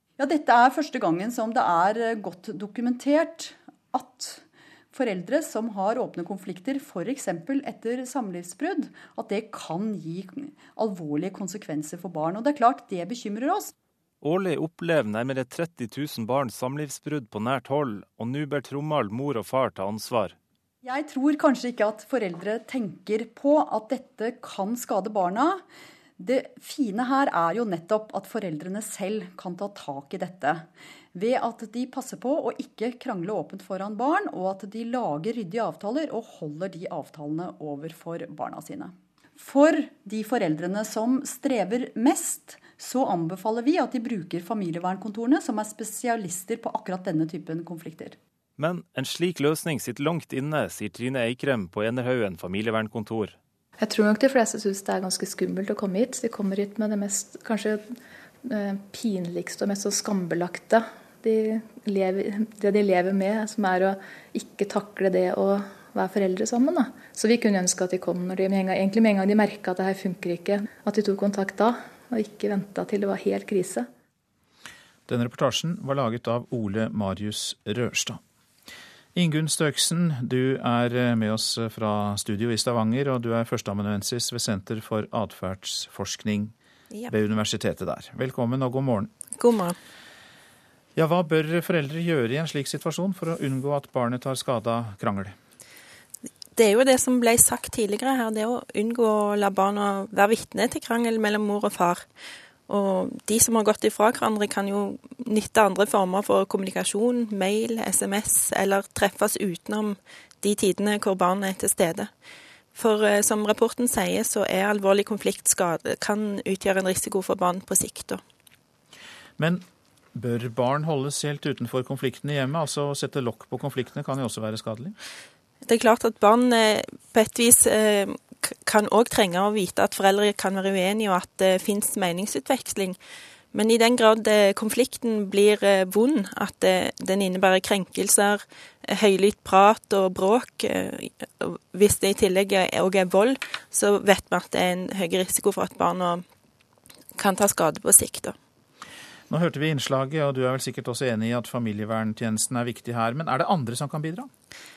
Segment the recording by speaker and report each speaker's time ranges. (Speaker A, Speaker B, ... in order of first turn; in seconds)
Speaker A: 0.2-13.7, 20.8-25.6, 26.2-48.2
Speaker B: 14.2-20.4, 48.6-53.4
Speaker C: 53.8-57.9, 58.5-73.9
Speaker D: 75.1-78.2, 79.2-86.5, 87.1-89.1, 91.0-95.3, 119.4-119.6, 120.2-125.0, 149.3-154.3
Speaker E: 89.3-89.8, 96.6-102.1, 102.7-112.1, 112.7-118.2, 125.7-133.0, 133.5-146.2, 147.2-148.3